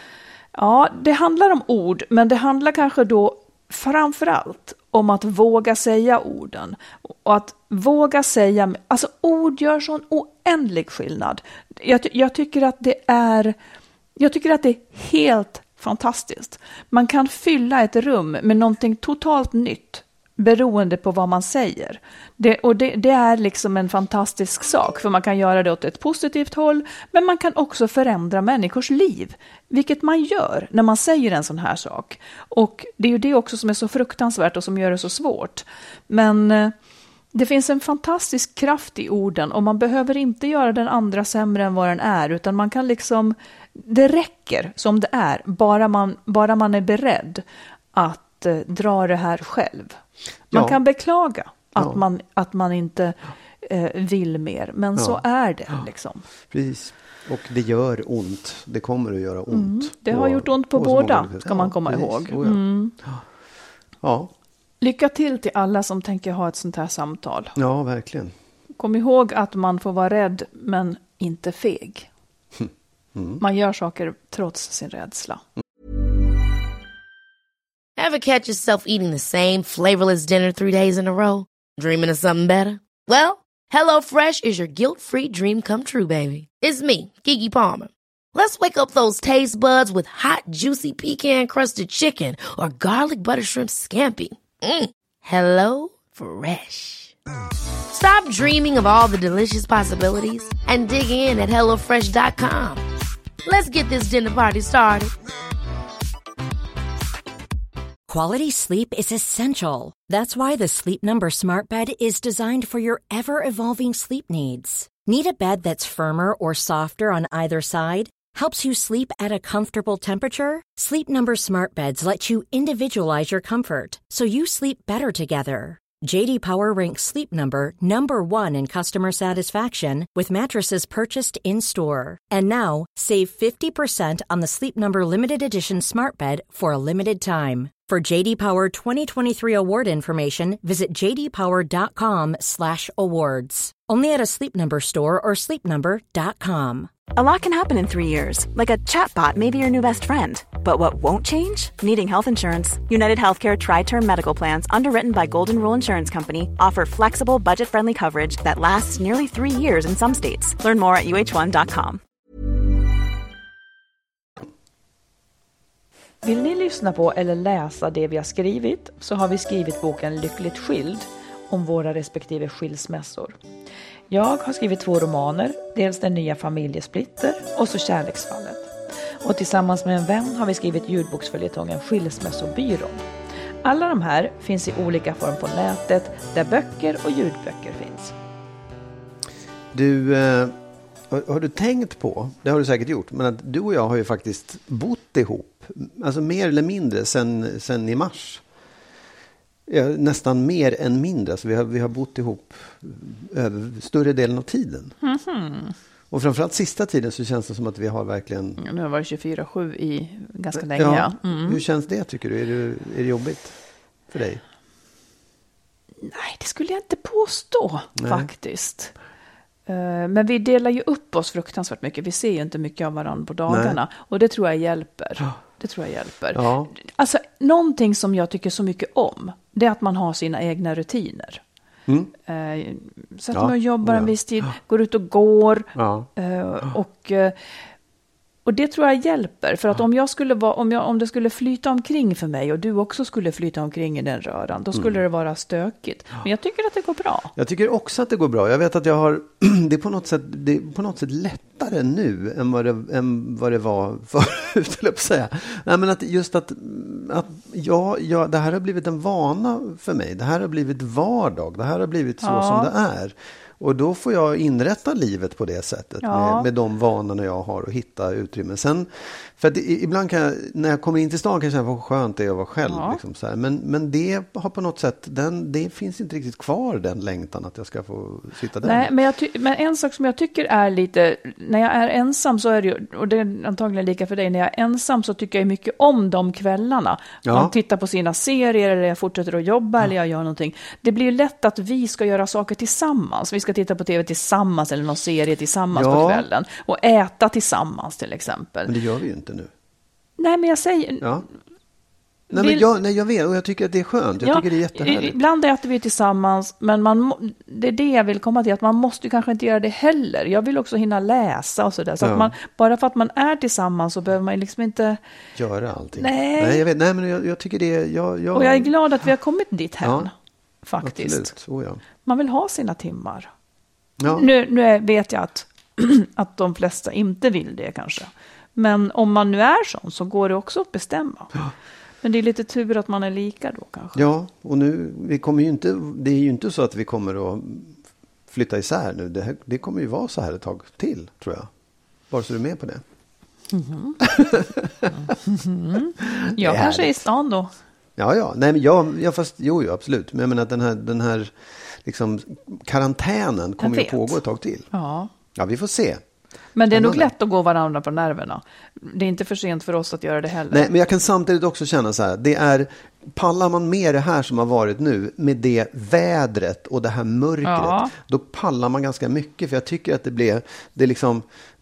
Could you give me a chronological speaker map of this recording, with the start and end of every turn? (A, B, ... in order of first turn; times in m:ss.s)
0:00.6-0:13.6 A
0:14.2-0:36.7 A
0:37.3-0:47.4 A
0:47.9-0:50.0 A
0:50.5-0:50.8 B
0:50.5-0:56.2 A
0:51.8-0:52.0 B
0:56.5-1:03.2 B
0:59.5-1:03.0 A
1:04.0-1:04.3 B
1:04.8-1:07.5 A
1:07.6-1:08.3 B
1:08.8-1:12.1 A
1:12.6-1:13.4 B
1:13.4-1:15.4 A
1:18.0-1:37.1 C
1:37.9-1:42.8 C
1:43.4-1:45.1 C
1:48.1-2:26.9 D
2:27.1-2:42.0 E
2:46.2-2:53.4 A
2:54.1-2:58.7 A
2:59.2-3:03.0 A
3:03.6-3:08.1 A
3:09.7-3:10.6 B
3:11.1-3:18.4 B
3:19.7-3:25.0 B
3:25.0-3:25.8 A
3:26.1-3:28.6 B
3:28.6-3:31.6 A
3:30.6-3:33.6 B
3:34.1-3:34.4 B
3:36.0-3:38.9 A
3:38.0-3:38.3 B
3:39.7-3:51.4 A
3:43.5-3:43.8 B
3:46.3-3:46.7 B
3:52.3-3:57.4 A
3:53.3-3:54.1 B
3:55.8-3:56.1 B
3:58.4-4:07.3 A
4:07.4-4:38.9 B
4:22.2-4:22.7 A
4:26.0-4:26.5 A
4:32.6-4:33.0 A
4:38.6-4:58.7 A
4:47.2-4:47.5 B
4:55.7-4:56.3 B
4:58.6-4:59.5 B
5:00.2-5:01.1 A
5:02.3-5:05.2 B
5:02.3-5:02.6 A
5:04.2-5:15.0 A
5:12.0-5:12.3 B
5:15.4-5:18.7 B
5:16.0-5:16.6 A
5:18.3-5:20.1 A
5:19.8-5:20.1 B
5:20.6-5:21.3 A
5:20.8-5:21.8 B
5:22.0-5:23.3 A
5:24.0-5:24.3 B
5:24.1-5:31.4 A
5:32.0-5:34.1 A
5:34.0-5:37.7 B
5:38.3-5:41.5 B
5:42.1-5:42.8 B
5:43.5-5:44.0 A
5:44.0-5:44.9 B
5:44.9-5:47.5 A
5:46.0-5:47.0 B
5:48.0-5:54.7 B
5:53.6-5:54.2 A
5:54.7-5:55.1 A
5:55.4-5:56.0 B
5:56.6-6:00.7 A
5:56.7-5:57.1 B
6:00.5-6:11.2 B
6:07.4-6:07.9 A